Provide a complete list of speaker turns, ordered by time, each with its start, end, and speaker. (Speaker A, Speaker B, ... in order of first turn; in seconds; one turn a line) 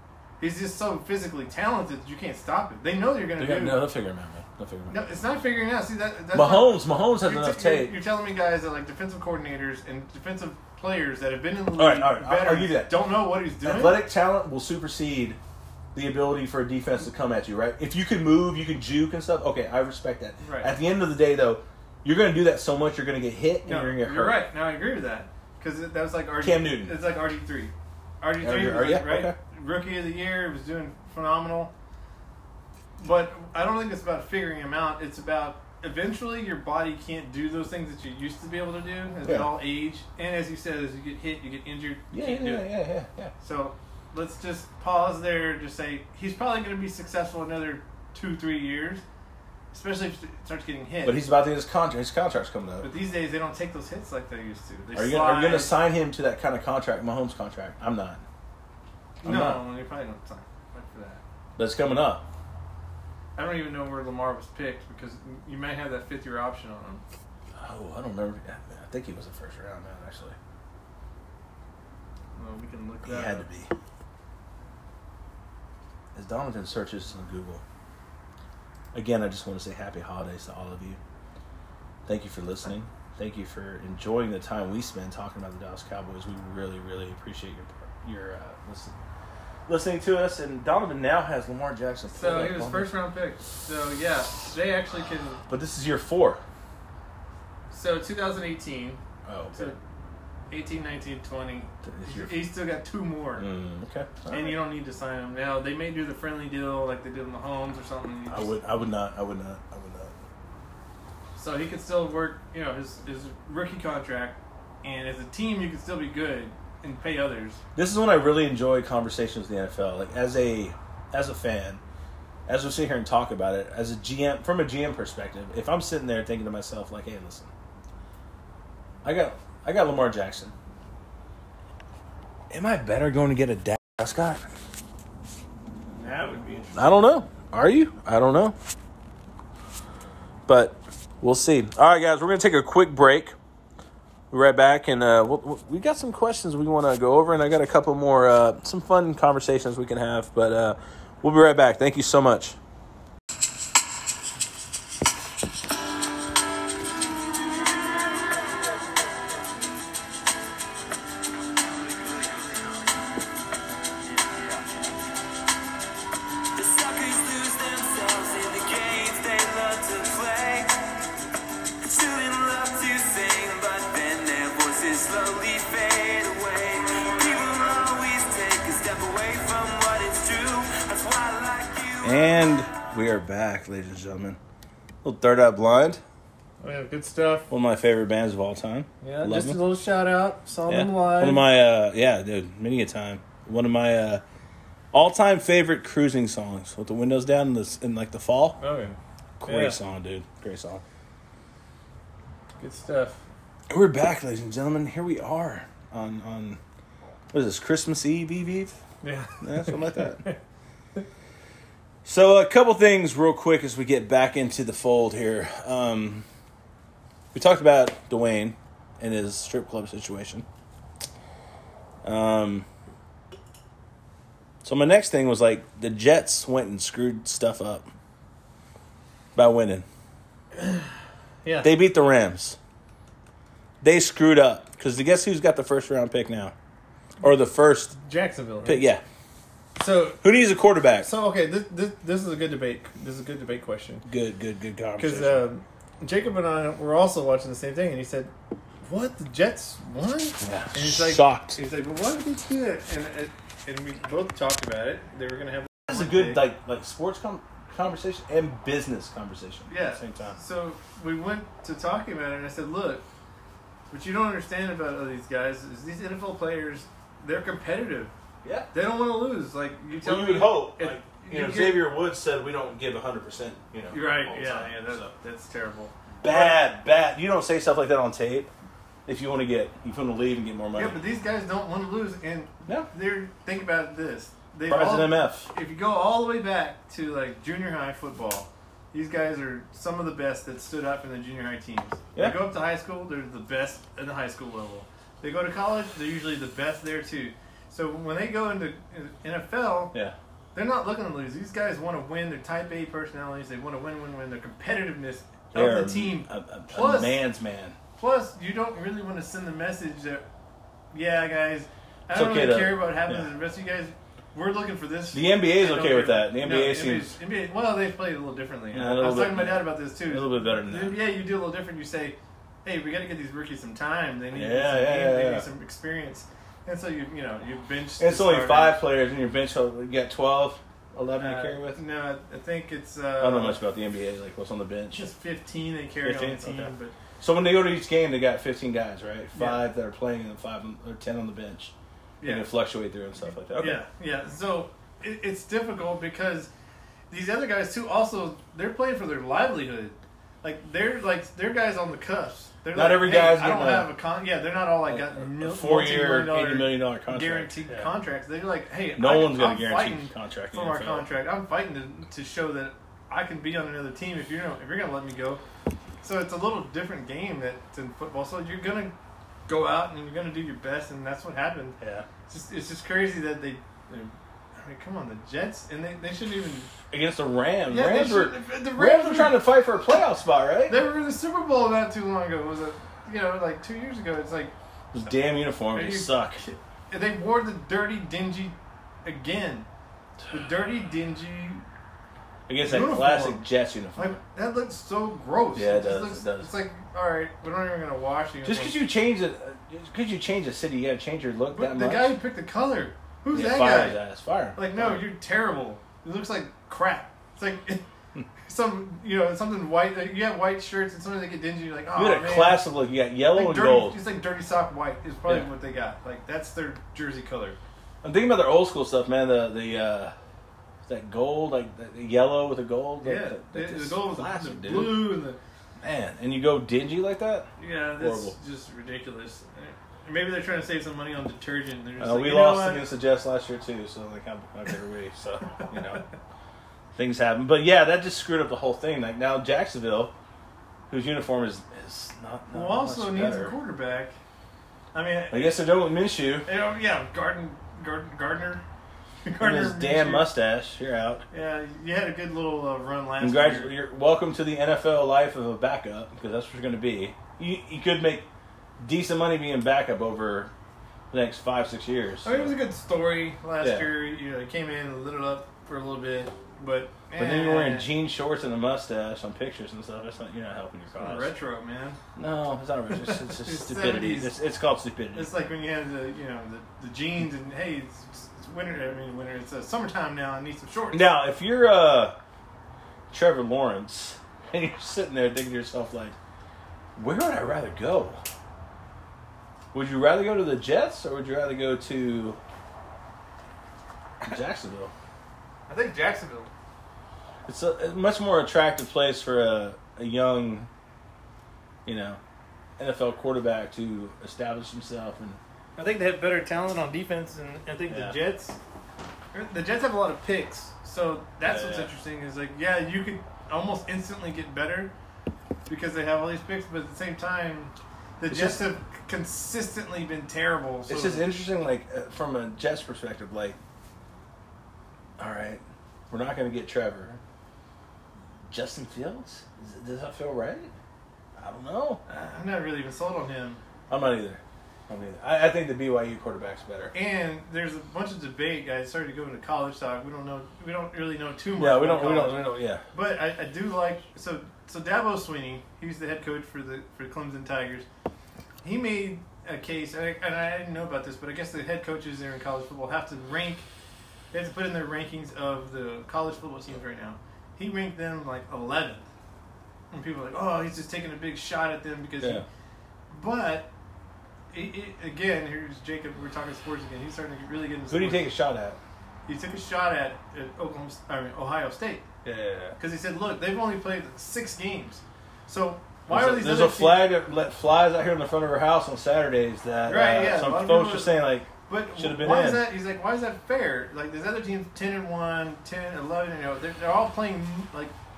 Speaker A: 0.4-3.8
Speaker B: 3.4-4.9
Speaker A: 4.9-14.0
Speaker B: 6.3-7.9
Speaker B: 11.8-13.1
Speaker B: 13.6-15.4
Speaker B: 15.9-24.4
Speaker A: 20.4-20.7
Speaker A: 23.6-31.7
Speaker B: 26.4-26.9
Speaker B: 28.4-29.4
Speaker A: 33.0-42.7
Speaker B: 39.2-39.5
Speaker B: 42.1-43.3
Speaker A: 43.4-49.0
Speaker A: 49.7-51.2
Speaker B: 51.0-52.9
Speaker A: 52.8-55.7
Speaker B: 54.9-58.2
Speaker B: 59.2-59.6
Speaker A: 59.2-61.2
Speaker B: 61.6-62.2
Speaker A: 63.4-67.0
Speaker B: 67.5-70.3
Speaker A: 72.3-73.5
Speaker B: 73.0-73.7
Speaker B: 76.1-77.6
Speaker B: 78.9-81.0
Speaker B: 82.0-88.9
Speaker B: 89.7-92.9
Speaker A: 92.1-95.4
Speaker B: 95.5-96.4
Speaker A: 97.7-99.0
Speaker B: 99.2-99.7
Speaker A: 100.5-103.5
Speaker B: 101.8-102.4
Speaker B: 103.4-104.6
Speaker A: 104.3-108.5
Speaker B: 108.3-110.1
Speaker A: 111.3-117.6
Speaker B: 117.8-121.8
Speaker B: 122.5-127.5
Speaker B: 129.0-130.5
Speaker B: 132.5-134.4
Speaker A: 136.0-136.8
Speaker B: 136.7-138.6
Speaker B: 140.5-143.3
Speaker B: 144.3-152.6
Speaker C: 166.6-170.7
Speaker C: 171.8-182.7
Speaker B: 182.0-184.4
Speaker B: 185.0-186.0
Speaker A: 186.6-187.5
Speaker B: 187.5-189.6
Speaker A: 189.0-191.4
Speaker B: 190.7-194.2
Speaker B: 194.9-198.6
Speaker A: 198.6-199.8
Speaker B: 199.4-200.8
Speaker A: 202.6-203.2
Speaker B: 203.7-206.6
Speaker B: 207.3-208.8
Speaker A: 209.0-210.4
Speaker B: 209.4-210.2
Speaker B: 212.0-216.2
Speaker B: 217.3-220.4
Speaker B: 222.0-222.7
Speaker B: 224.6-227.9
Speaker B: 229.3-229.8
Speaker A: 230.6-230.9
Speaker A: 231.4-231.7
Speaker B: 231.6-232.6
Speaker B: 233.8-236.5
Speaker B: 237.2-237.9
Speaker A: 238.0-238.8
Speaker B: 238.6-239.0
Speaker A: 239.8-240.2
Speaker B: 240.2-241.1
Speaker A: 241.0-244.0
Speaker B: 244.0-245.4
Speaker A: 245.0-248.3
Speaker A: 248.8-256.4
Speaker B: 250.4-251.6
Speaker B: 255.9-260.4
Speaker A: 259.7-263.0
Speaker A: 263.9-268.1
Speaker B: 268.4-268.7
Speaker A: 268.7-271.9
Speaker B: 270.0-275.1
Speaker A: 273.9-276.6
Speaker B: 276.2-278.5
Speaker B: 279.1-281.0
Speaker A: 280.7-299.9
Speaker B: 284.7-285.5
Speaker A: 300.5-307.2
Speaker B: 305.5-307.8
Speaker A: 308.0-310.2
Speaker A: 310.9-328.8
Speaker B: 312.1-313.3
Speaker B: 315.1-317.1
Speaker B: 318.7-321.0
Speaker B: 324.3-325.4
Speaker B: 328.0-331.8
Speaker A: 331.2-333.6
Speaker B: 333.2-335.0
Speaker A: 334.9-336.9
Speaker B: 336.0-343.8
Speaker A: 339.3-339.6
Speaker A: 342.2-342.5
Speaker A: 343.5-346.5
Speaker A: 347.1-365.4
Speaker B: 352.7-353.9
Speaker B: 354.9-357.9
Speaker B: 358.9-361.1
Speaker A: 366.0-368.9
Speaker A: 369.5-376.7
Speaker B: 371.8-372.1
Speaker B: 376.9-380.8
Speaker A: 377.7-379.4
Speaker A: 380.7-384.5
Speaker B: 384.9-386.4
Speaker A: 385.7-389.7
Speaker A: 390.3-391.6
Speaker B: 392.5-394.2
Speaker A: 392.6-398.8
Speaker B: 395.5-396.5
Speaker B: 398.4-402.1
Speaker A: 401.5-404.0
Speaker B: 403.3-405.1
Speaker A: 404.5-407.8
Speaker A: 408.4-412.6
Speaker B: 411.9-414.0
Speaker A: 413.3-417.6
Speaker B: 418.0-420.1
Speaker B: 420.9-425.1
Speaker A: 423.0-425.4
Speaker B: 425.8-428.3
Speaker A: 427.6-432.9
Speaker B: 432.0-436.0
Speaker B: 436.9-440.1
Speaker B: 440.9-443.5
Speaker A: 442.5-444.1
Speaker A: 444.9-445.6
Speaker B: 445.3-446.5
Speaker A: 446.4-448.6
Speaker A: 449.2-450.3
Speaker B: 449.4-451.2
Speaker A: 451.3-453.7
Speaker B: 453.2-458.3
Speaker B: 458.8-460.5
Speaker B: 461.1-462.5
Speaker A: 462.2-467.9
Speaker B: 463.6-463.9
Speaker B: 467.1-471.3
Speaker A: 471.0-472.0
Speaker B: 472.1-475.3
Speaker A: 473.0-474.3
Speaker A: 475.1-481.1
Speaker B: 480.9-482.2
Speaker B: 483.1-486.1
Speaker B: 486.9-488.2
Speaker B: 489.7-492.4
Speaker B: 494.2-494.9
Speaker A: 495.7-496.5
Speaker B: 497.4-500.7
Speaker B: 501.8-502.2
Speaker B: 502.8-505.4
Speaker A: 505.8-508.6
Speaker B: 507.9-508.1
Speaker A: 509.3-514.9
Speaker B: 511.4-511.9
Speaker A: 515.7-521.3
Speaker B: 518.3-518.7
Speaker B: 520.9-523.6
Speaker B: 525.2-527.2
Speaker B: 528.5-530.7
Speaker B: 531.4-532.0
Speaker A: 532.1-533.6
Speaker B: 533.9-536.9
Speaker A: 536.9-547.9
Speaker B: 541.6-542.8
Speaker A: 548.6-553.6
Speaker A: 554.3-559.0
Speaker A: 559.9-562.4
Speaker B: 562.2-562.4
Speaker A: 563.1-563.7
Speaker A: 564.5-568.3
Speaker B: 567.9-568.8
Speaker A: 569.3-572.0
Speaker B: 572.2-572.8
Speaker A: 572.8-577.1
Speaker B: 576.1-582.7
Speaker A: 579.9-587.9